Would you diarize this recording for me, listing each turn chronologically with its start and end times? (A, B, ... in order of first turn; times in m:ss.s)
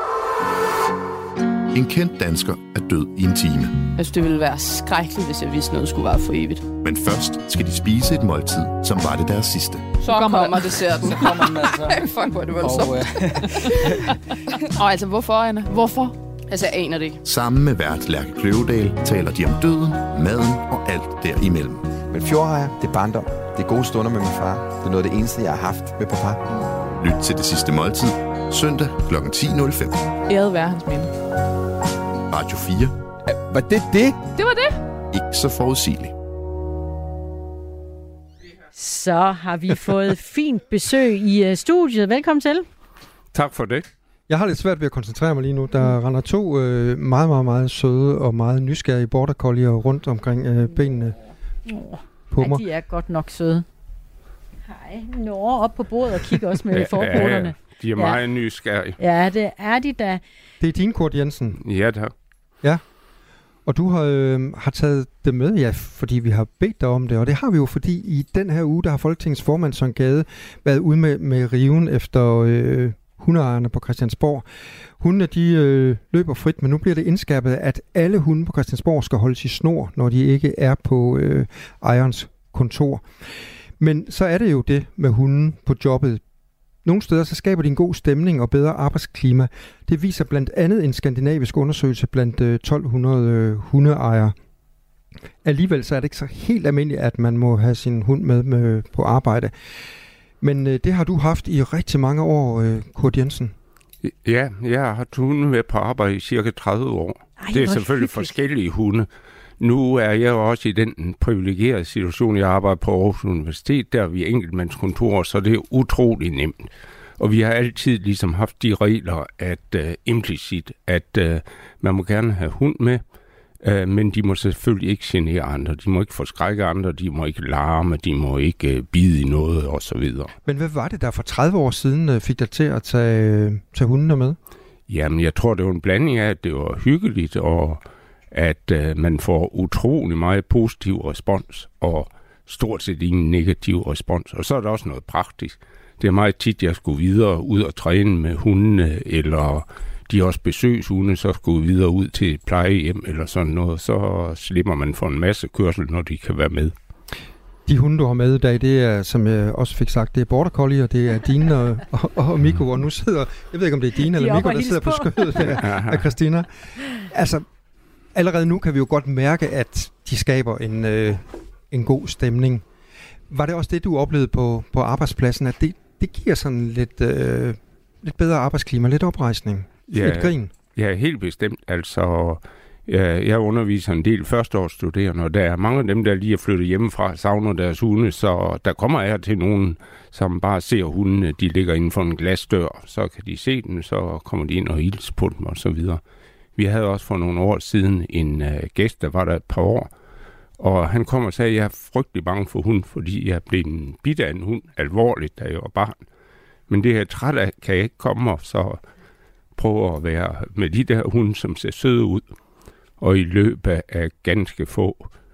0:01.7-0:03.9 A
0:04.0-0:06.7 B
0:06.8-0:09.9 A
0:10.0-0:13.9 B
0:10.1-0:12.0 C
0:12.6-0:14.1 C
0:14.6-0:17.2 B
0:17.2-0:22.0 A
0:22.1-0:26.7 C
0:27.0-0:30.1 A
0:30.3-0:31.1 B
0:32.3-0:32.9 A
0:33.2-0:34.3 C
0:34.3-0:34.8 B
0:35.1-0:36.1 A
0:38.7-0:42.6 D
0:43.3-0:43.8 E
0:44.3-0:51.2 F
0:51.6-0:53.6 D
0:52.3-0:52.6 F
0:54.7-0:58.2 D
0:56.7-0:59.0 E
0:59.0-1:00.2 D
1:00.6-1:01.6 F
1:01.6-1:02.1 E
1:03.6-1:14.4 F
1:15.0-1:23.0 F
1:23.8-1:26.2 F
1:26.8-1:34.3 F
1:35.4-1:39.5 F
1:40.4-1:43.5 F
1:44.1-1:49.1 E
1:47.4-1:48.3 D
1:49.6-2:03.0 E
2:03.6-2:10.3 E
2:10.4-2:14.4 F
2:14.9-2:17.8 E
2:18.3-2:36.7 E
2:37.6-2:47.4 F
2:44.1-2:45.5 D
2:45.6-2:46.0 E
2:48.1-2:52.6 F
2:53.3-3:00.5 F
2:59.9-3:16.0 E
3:16.6-3:19.9 E
3:20.6-3:26.0 E
3:26.7-3:28.8 E
3:29.6-3:32.2 E
3:33.0-3:35.1 E